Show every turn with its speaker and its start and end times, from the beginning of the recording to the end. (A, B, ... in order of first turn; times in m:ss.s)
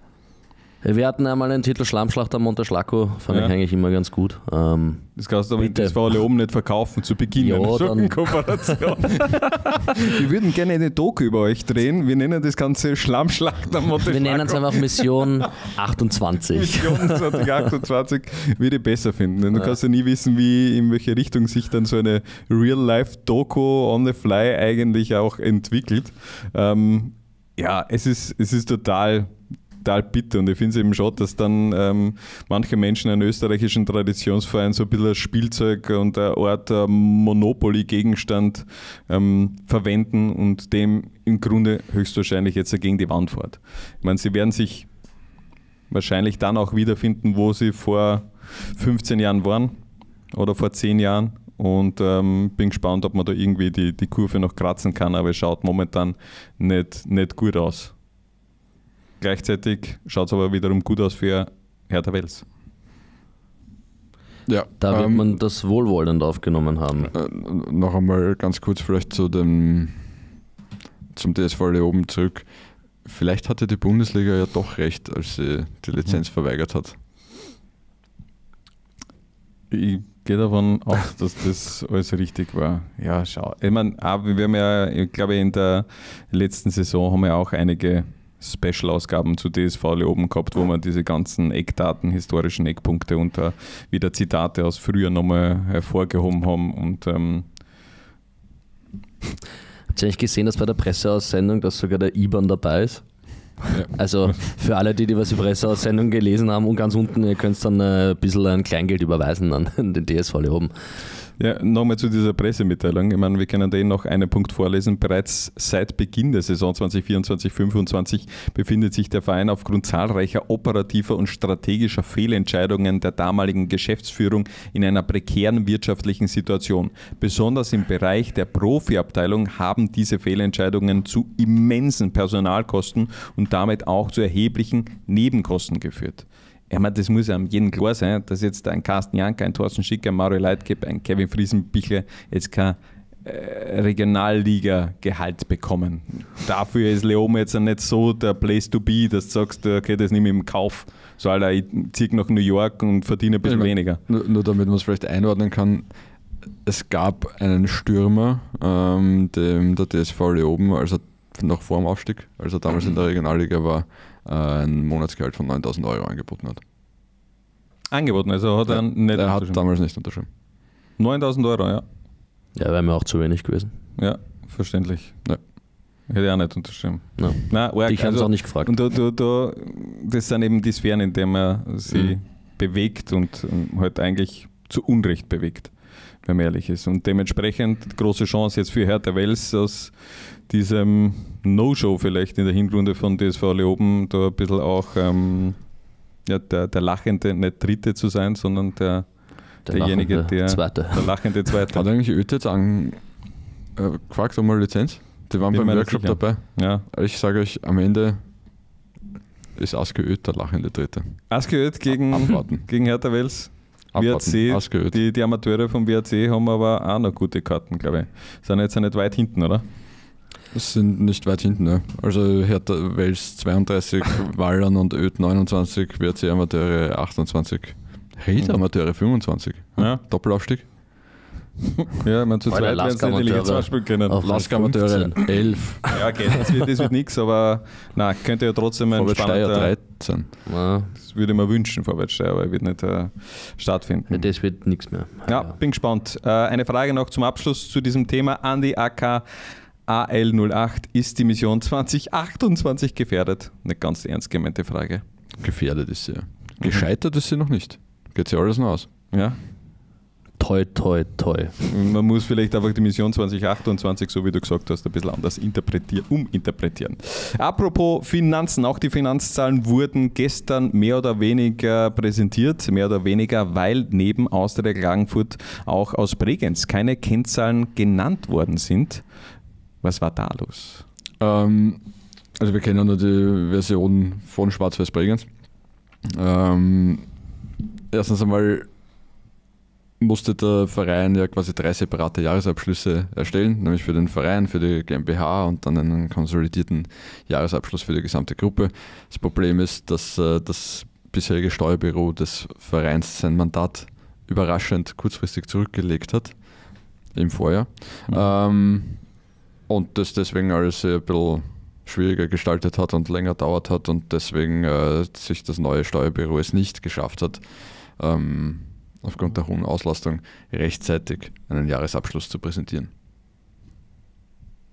0:00.8-0:06.0 A
0:05.2-0:15.3 B
0:07.4-0:08.8 A
0:14.0-0:17.6 A
0:16.5-0:29.3 B
0:29.8-0:44.9 B
0:45.9-0:49.8 B
0:50.3-0:58.0 B
0:59.2-1:02.4 B
1:04.5-1:05.3 C
1:04.8-1:07.1 A
1:07.1-1:10.3 C
1:11.1-1:17.0 C
1:19.7-1:37.5 B
1:39.9-1:50.7 A
1:51.4-2:34.0 B
2:33.4-2:46.6 C
2:47.9-2:49.6 B
2:48.7-2:50.3 C
2:51.0-2:51.8 B
2:52.6-2:53.7 A
2:54.0-3:10.0 B
2:57.2-2:58.8 A
3:10.5-3:21.9 B
3:19.7-3:21.2 A
3:21.7-3:28.5 C
3:25.5-3:26.8 B
3:29.6-3:31.4 C
3:31.3-3:39.6 B
3:32.1-3:32.7 C
3:33.9-3:35.0 C
3:40.5-3:50.7 C
3:52.0-3:54.2 B
3:52.5-3:56.0 A
3:54.2-3:56.0 C
3:55.9-3:59.7 B
3:58.9-4:00.3 C
4:00.5-4:00.9 A
4:01.0-4:04.3 B
4:04.1-4:05.5 A
4:05.3-4:09.2 B
4:09.9-4:15.0 B
4:15.4-4:18.9 C
4:19.1-4:19.4 B
4:20.4-4:21.6 A
4:21.7-4:39.0 B
4:39.8-4:40.8 B
4:41.2-4:41.8 C
4:42.3-4:47.2 C
4:47.9-4:48.7 C
4:50.0-5:22.9 C